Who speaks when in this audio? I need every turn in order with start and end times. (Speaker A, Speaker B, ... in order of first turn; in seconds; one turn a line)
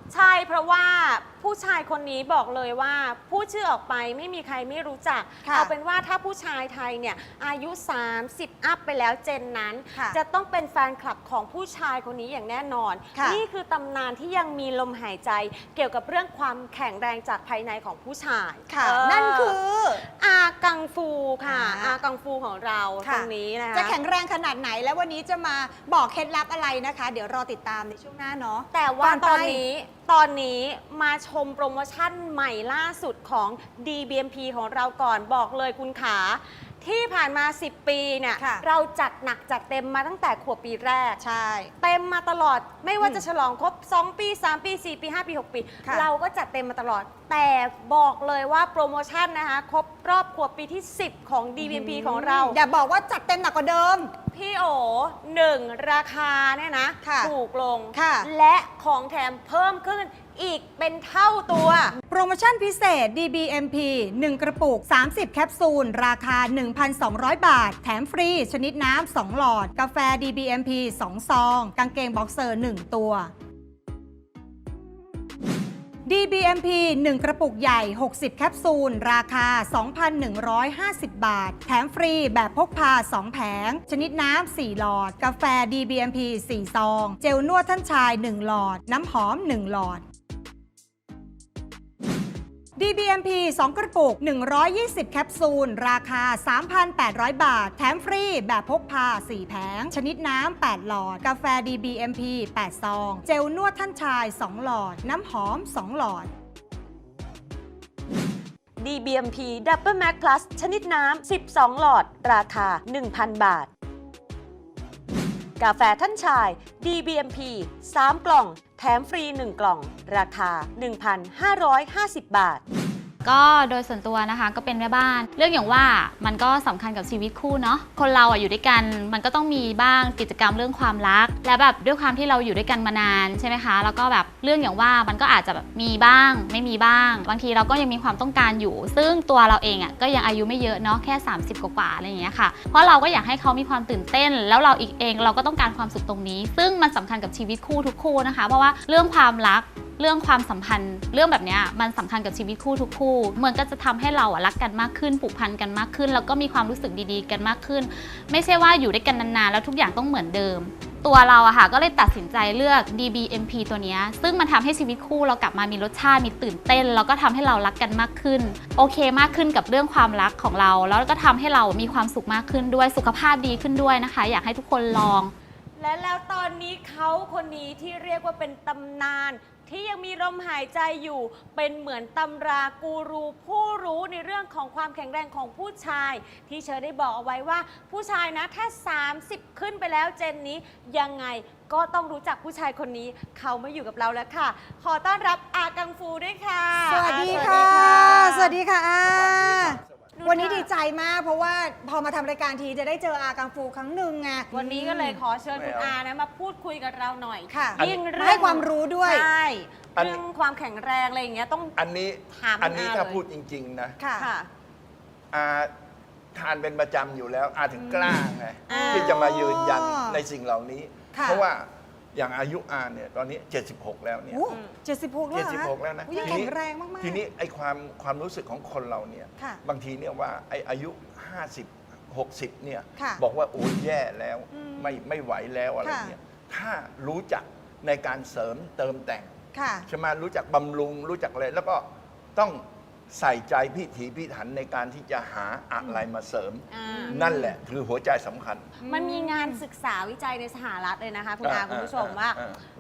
Speaker A: 0.1-24.0
Speaker B: 5.5-5.7
Speaker B: 13.2-13.4
Speaker B: 18.7-20.0
Speaker B: 21.4-22.0
Speaker B: 23.0-29.6
Speaker A: 28.7-41.2
Speaker B: 38.4-38.6
Speaker B: 41.2-41.7
Speaker A: 41.8-52.6
Speaker B: 43.0-43.2
Speaker B: 51.6-54.1
Speaker A: 54.3-62.0
Speaker B: 57.0-57.3
Speaker B: 57.9-58.3
Speaker B: 62.1-73.3
Speaker B: 76.1-90.0
Speaker B: 92.8-106.3
Speaker A: 108.8-113.7
Speaker A: 115.6-122.6
Speaker C: 123.2-175.3
Speaker A: 175.8-198.6
Speaker B: 196.9-205.2
Speaker D: 197.1-198.1
Speaker D: 199.0-200.1
Speaker A: 200.2-200.7
Speaker A: 204.5-211.8
Speaker D: 205.5-206.0
Speaker B: 207.5-209.3
Speaker D: 207.8-208.0
Speaker D: 210.0-210.2
Speaker D: 211.8-214.0
Speaker A: 212.3-213.2
Speaker B: 214.0-214.3
Speaker A: 214.2-214.5
Speaker D: 215.3-215.7
Speaker D: 216.3-224.4
Speaker B: 217.8-218.2
Speaker A: 218.7-219.2
Speaker B: 218.7-220.2
Speaker B: 221.1-221.4
Speaker B: 224.3-227.2
Speaker A: 224.5-224.8
Speaker D: 225.3-239.3
Speaker B: 234.5-235.0
Speaker B: 235.8-236.1
Speaker B: 239.5-239.9
Speaker D: 239.9-248.8
Speaker A: 246.7-247.2
Speaker B: 246.9-247.6
Speaker B: 248.8-249.6
Speaker A: 248.8-252.4
Speaker D: 251.4-252.6